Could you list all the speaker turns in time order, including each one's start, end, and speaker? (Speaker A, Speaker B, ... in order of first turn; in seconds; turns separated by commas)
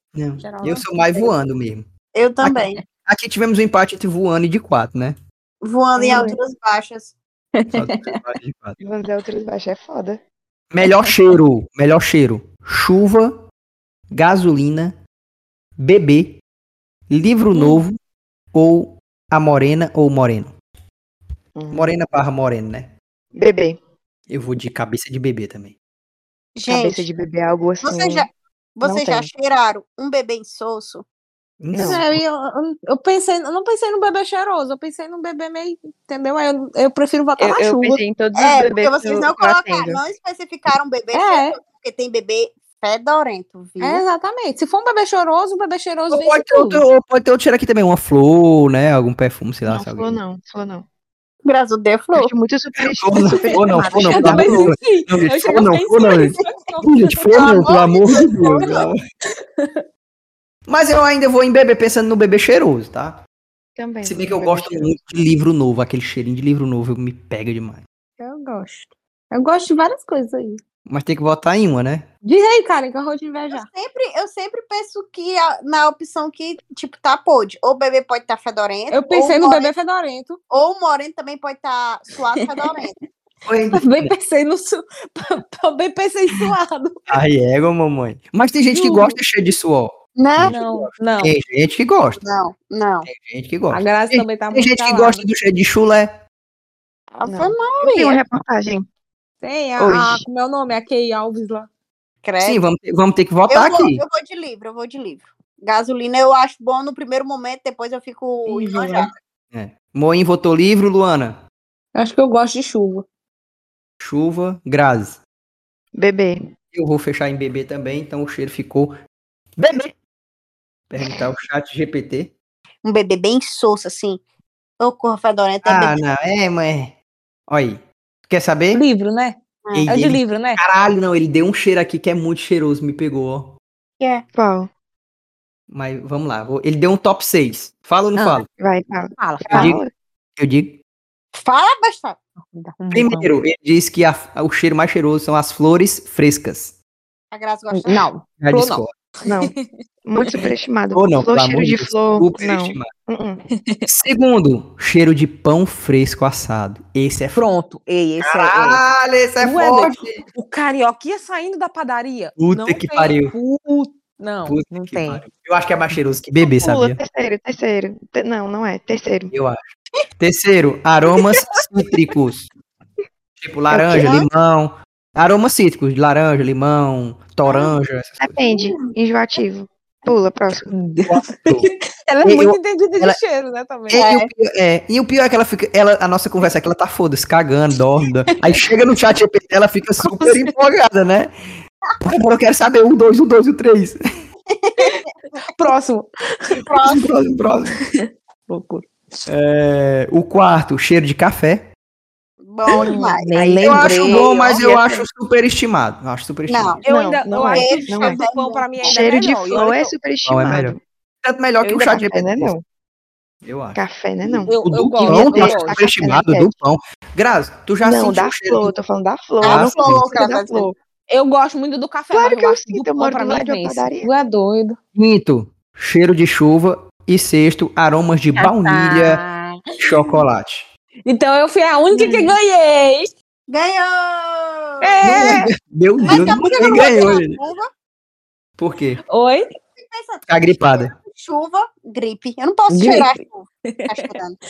Speaker A: 0.1-1.9, Speaker B: 0.4-0.8, Speaker C: 2.1-2.8, Speaker A: 2.4-5.2, Speaker C: 5.6-7.2, Speaker B: 6.0-6.3, Speaker D: 6.1-6.3, Speaker B: 7.6-8.2, Speaker A: 7.7-8.8, Speaker D: 8.8-10.2, Speaker A: 10.7-13.4, Speaker A: 14.1-15.0, Speaker A: 15.8-16.4, Speaker A: 17.1-18.0, Speaker A: 18.5-20.6, Speaker D: 21.6-21.9, Speaker A: 21.7-22.9, Speaker D: 23.4-23.8, Speaker A: 24.3-25.8, Speaker C: 26.6-27.1, Speaker D: 26.7-28.3, Speaker C: 27.8-31.1, Speaker D: 28.8-29.3, Speaker A: 31.6-32.2, Speaker D: 31.7-32.0, Speaker B: 31.8-38.0, Speaker D: 37.4-40.0, Speaker C: 38.4-44.0, Speaker B: 41.1-41.5, Speaker B: 43.8-46.8, Speaker A: 46.1-50.2, Speaker D: 49.7-50.9, Speaker C: 51.5-52.3, Speaker D: 52.2-54.7, Speaker A: 52.8-59.0, Speaker B: 53.6-57.7, Speaker C: 57.3-58.9, Speaker B: 59.6-59.8, Speaker A: 60.7-63.2, Speaker D: 63.8-64.9, Speaker A: 64.0-67.8, Speaker B: 68.2-70.6, Speaker A: 70.9-72.1, Speaker B: 72.3-73.7, Speaker C: 73.5-79.7, Speaker B: 78.9-80.4, Speaker C: 80.5-83.0, Speaker A: 83.5-84.2, Speaker B: 83.7-87.1, Speaker A: 87.1-92.2, Speaker B: 88.7-89.2, Speaker C: 90.2-90.6, Speaker B: 90.5-91.3, Speaker C: 92.2-93.1, Speaker A: 93.0-96.2, Speaker B: 93.7-95.2, Speaker D: 97.2-98.8, Speaker C: 97.2-98.2, Speaker B: 99.4-101.7, Speaker D: 99.8-100.2, Speaker C: 102.2-102.6, Speaker A: 102.4-104.0, Speaker C: 103.5-109.1, Speaker B: 108.5-109.1, Speaker A: 109.5-111.4, Speaker B: 112.0-113.0, Speaker A: 114.0-115.2, Speaker D: 116.0-116.4, Speaker A: 116.7-119.0, Speaker A: 119.6-119.9, Speaker A: 120.9-122.3, Speaker C: 122.8-124.2, Speaker C: 124.8-126.0, Speaker A: 125.6-127.0, Speaker A: 127.5-128.8, Speaker B: 128.7-130.6, Speaker A: 129.7-133.6, Speaker D: 134.3-134.7, Speaker A: 135.7-138.5, Speaker B: 138.2-138.4, Speaker D: 138.6-139.9, Speaker B: 139.2-139.7, Speaker A: 139.5-139.8, Speaker A: 140.4-140.8, Speaker C: 141.3-142.2, Speaker B: 142.5-143.3, Speaker A: 142.9-146.8, Speaker C: 147.3-148.1, Speaker B: 147.7-149.7, Speaker A: 148.4-148.9, Speaker D: 149.3-149.5, Speaker D: 150.1-153.4, Speaker A: 150.9-152.9, Speaker B: 153.6-153.8, Speaker A: 153.9-157.5, Speaker B: 157.3-158.8, Speaker A: 158.2-160.2, Speaker B: 159.4-165.2, Speaker A: 162.4-163.3, Speaker A: 164.5-167.0, Speaker D: 166.4-169.3, Speaker A: 169.3-169.6, Speaker A: 170.2-172.5, Speaker A: 173.4-178.4, Speaker D: 173.7-174.2, Speaker D: 178.2-180.7, Speaker B: 180.7-184.0, Speaker A: 181.1-181.7, Speaker A: 182.2-183.2, Speaker A: 183.9-191.3, Speaker C: 183.9-184.3, Speaker B: 190.2-190.5, Speaker A: 192.0-194.0, Speaker C: 194.5-195.1, Speaker B: 195.4-196.6, Speaker C: 196.7-197.0, Speaker A: 196.8-197.8, Speaker B: 198.5-198.9, Speaker A: 199.3-201.7, Speaker C: 202.4-204.7, Speaker D: 202.7-203.2, Speaker B: 203.2-204.8, Speaker A: 203.6-206.8, Speaker C: 206.5-209.0, Speaker B: 206.8-209.9, Speaker D: 206.9-208.2, Speaker D: 208.8-210.8, Speaker A: 210.3-212.5, Speaker D: 211.6-212.6, Speaker A: 213.4-218.8, Speaker D: 213.8-214.5, Speaker B: 214.5-215.8, Speaker D: 215.1-216.5, Speaker D: 217.8-220.8, Speaker C: 219.4-220.7, Speaker A: 219.4-220.1, Speaker B: 221.1-224.8, Speaker D: 222.1-224.1, Speaker A: 224.9-229.2, Speaker B: 228.4-229.8, Speaker A: 229.8-230.7, Speaker B: 231.1-233.1, Speaker C: 231.9-232.3, Speaker C: 233.5-235.4, Speaker B: 234.8-235.5, Speaker A: 235.0-237.4, Speaker C: 236.0-237.7, Speaker A: 238.6-239.0, Speaker B: 239.1-239.5, Speaker C: 239.8-244.4, Speaker A: 240.3-240.9, Speaker B: 242.7-244.1